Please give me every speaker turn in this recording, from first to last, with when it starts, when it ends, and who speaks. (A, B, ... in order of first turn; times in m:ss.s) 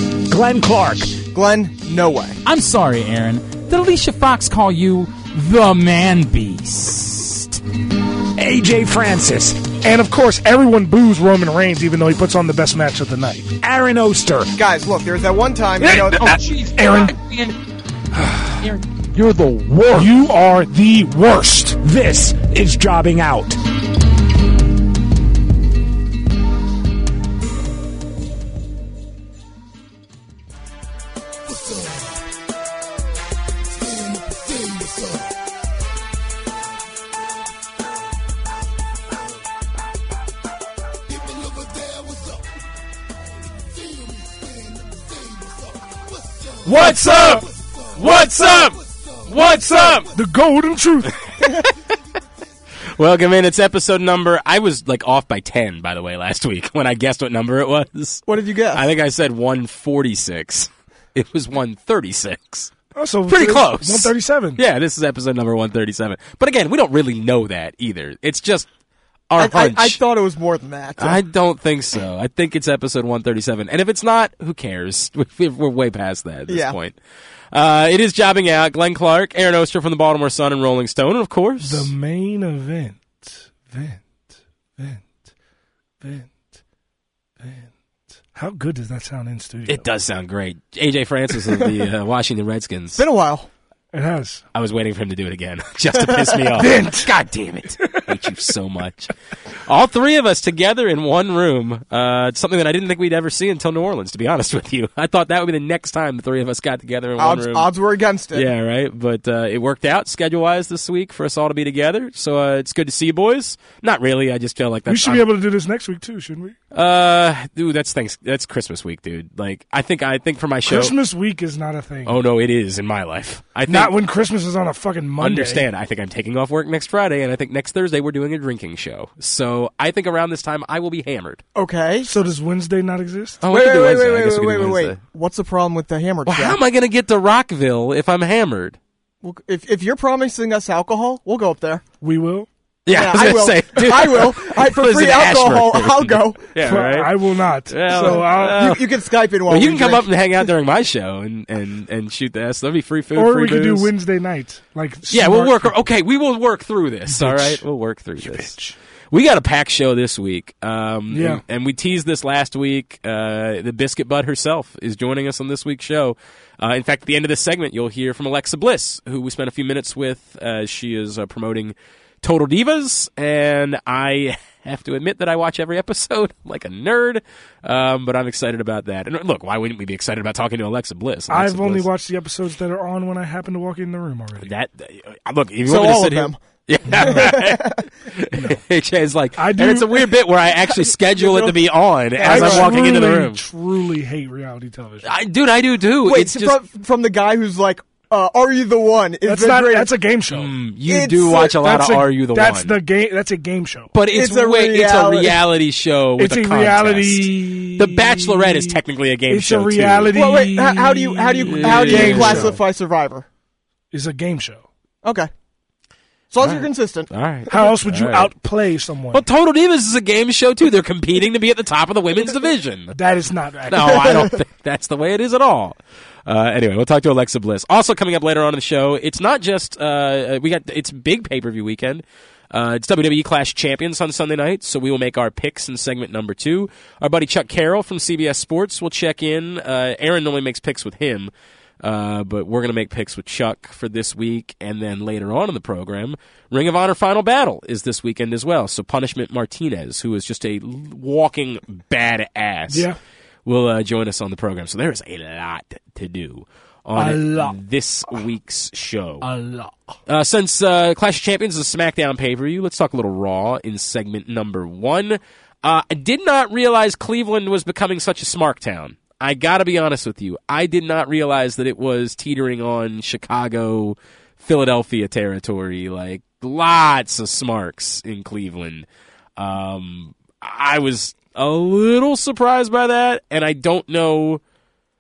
0:00.3-0:01.2 A
0:01.3-0:02.4 B
0:02.4-0:07.6 C
0:08.4-0:09.6 A
0:09.8-0:13.5 D
0:13.6-0:14.5 A
0:14.6-0:16.4 B
0:15.9-0:17.6 C
0:16.3-0:17.1 D
0:18.6-0:20.0 C
0:19.9-0:21.8 D
0:21.8-0:23.6 A
0:46.6-0:50.1 E
0:46.7-0:47.3 D
0:48.2-0:48.6 D
0:49.4-0:51.3 D
0:52.9-1:02.7 E
0:58.3-0:58.8 B
1:03.0-1:04.6 D
1:03.3-1:08.7 E
1:09.3-1:10.0 E
1:09.4-1:11.2 B
1:11.0-1:17.0 E
1:16.5-1:16.8 B
1:17.5-1:21.9 E
1:21.6-1:24.0 D
1:24.8-1:25.1 D
1:26.0-1:26.4 D
1:27.4-1:27.7 D
1:28.3-1:29.8 D
1:29.7-1:33.0 E
1:32.9-1:33.5 B
1:33.9-1:34.4 D
1:34.6-1:39.1 E
1:36.6-1:37.1 D
1:37.8-1:38.1 D
1:39.6-1:47.7 E
1:47.2-1:48.5 B
1:48.3-1:55.3 E
1:54.9-1:56.6 D
1:56.7-2:00.9 E
2:00.7-2:02.2 D
2:02.1-2:04.0 E
2:03.7-2:05.7 D
2:05.2-2:11.4 E
2:11.6-2:12.1 B
2:12.0-2:13.4 D
2:13.4-2:15.0 E
2:13.5-2:16.6 B
2:16.2-2:18.8 E
2:19.2-2:21.8 B
2:22.0-2:22.5 D
2:22.9-2:28.9 E
2:22.9-2:26.5 B
2:26.6-2:28.7 D
2:28.0-2:30.1 B
2:29.5-2:33.9 E
2:33.2-2:35.8 D
2:35.1-2:38.6 E
2:37.1-2:37.6 D
2:38.2-2:38.8 D
2:39.1-3:01.9 E
2:41.1-2:41.4 D
3:01.3-3:04.5 D
3:04.4-3:13.4 E
3:05.6-3:06.4 B
3:06.9-3:07.3 D
3:07.1-3:07.8 B
3:08.3-3:08.6 D
3:09.4-3:10.1 D
3:12.2-3:15.1 D
3:12.2-3:12.7 B
3:15.0-3:16.6 E
3:16.0-3:19.9 B
3:19.3-3:20.5 D
3:20.3-3:22.8 E
3:20.9-3:21.5 B
3:21.4-3:23.9 D
3:23.9-3:30.3 E
3:24.1-3:25.4 B
3:26.2-3:32.6 D
3:30.2-3:33.3 B
3:31.4-3:32.6 E
3:33.9-3:34.6 D
3:35.0-3:35.3 B
3:36.3-3:37.1 B
3:36.4-3:38.3 E
3:37.5-3:39.2 D
3:39.1-3:43.0 E
3:42.9-3:44.3 D
3:43.7-4:12.9 E
4:12.7-4:13.0 D
4:13.4-4:19.3 E
4:17.0-4:17.6 D
4:19.2-4:19.7 D
4:20.1-4:44.4 E